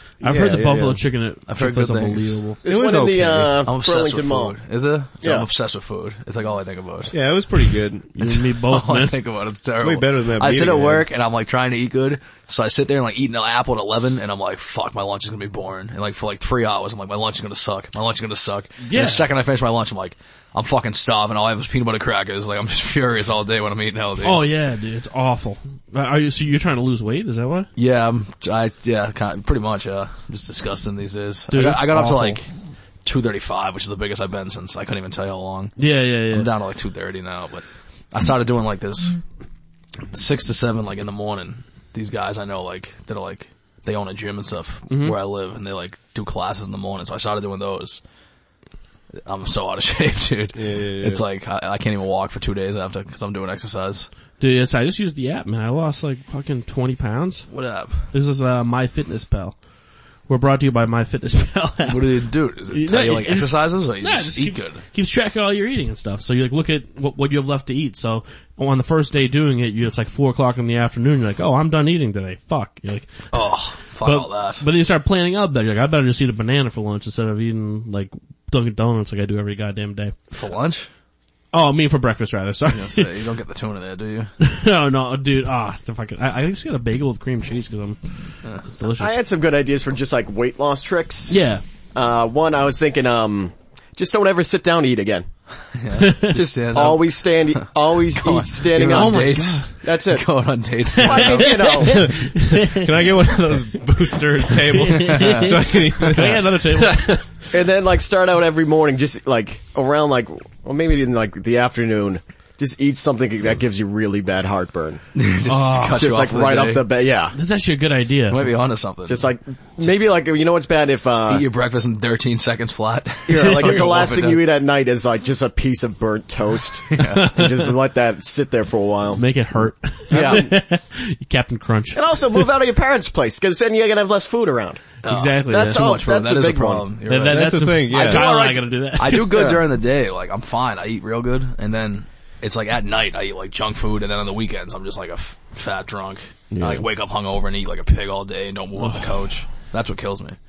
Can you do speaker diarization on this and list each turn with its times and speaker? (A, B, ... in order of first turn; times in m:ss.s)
0:00.2-0:02.6 A
0:00.2-0:01.0 B
0:01.5-0:02.4 C
0:02.6-0:04.6 D
0:02.6-0:03.6 B
0:03.6-0:07.1 C
0:05.2-0:05.5 D
0:07.1-0:08.1 B
0:08.2-0:09.2 A
0:08.2-0:24.5 C
0:09.8-0:11.1 B
0:18.8-0:19.3 A
0:24.2-0:27.7 A
0:27.8-0:32.4 C
0:31.5-0:32.4 A
0:33.0-0:35.7 C
0:35.8-0:36.5 A
0:36.3-0:39.2 C
0:40.1-0:48.0 C
0:44.9-0:45.2 A
0:49.2-0:54.1 C
0:50.6-0:51.2 B
0:54.4-0:57.5 A
0:57.5-0:58.0 C
0:58.0-0:59.6 A
1:00.3-1:13.3 A
1:01.8-1:04.8 C
1:13.3-1:14.7 C
1:14.0-1:20.2 A
1:20.3-1:20.9 C
1:21.5-1:23.2 A
1:22.7-1:24.3 C
1:24.4-1:28.0 A
1:28.7-1:29.2 A
1:29.0-1:31.4 D
1:31.3-1:31.6 A
1:31.9-1:35.3 D
1:35.8-1:41.8 C
1:36.0-1:36.5 A
1:36.3-1:40.3 D
1:38.8-1:39.7 A
1:41.0-1:43.3 A
1:41.0-1:42.1 D
1:41.8-1:47.5 B
1:44.7-1:47.2 A
1:45.1-1:45.5 C
1:47.5-1:55.0 D
1:55.2-1:56.8 C
1:55.4-1:56.1 A
1:56.0-1:57.4 D
1:57.3-1:58.4 A
1:58.3-1:59.3 C
1:59.1-2:01.5 D
2:01.3-2:04.4 C
2:03.3-2:09.2 D
2:03.4-2:03.8 A
2:06.9-2:07.3 C
2:07.0-2:07.6 A
2:09.2-2:12.5 A
2:10.1-2:10.5 B
2:10.1-2:10.5 D
2:11.9-2:14.9 D
2:15.0-2:17.7 C
2:15.0-2:15.8 A
2:15.5-2:16.9 D
2:17.1-2:19.5 A
2:17.3-2:18.2 B
2:17.9-2:19.6 D
2:19.0-2:30.4 C
2:26.5-2:26.9 B
2:28.8-2:29.1 A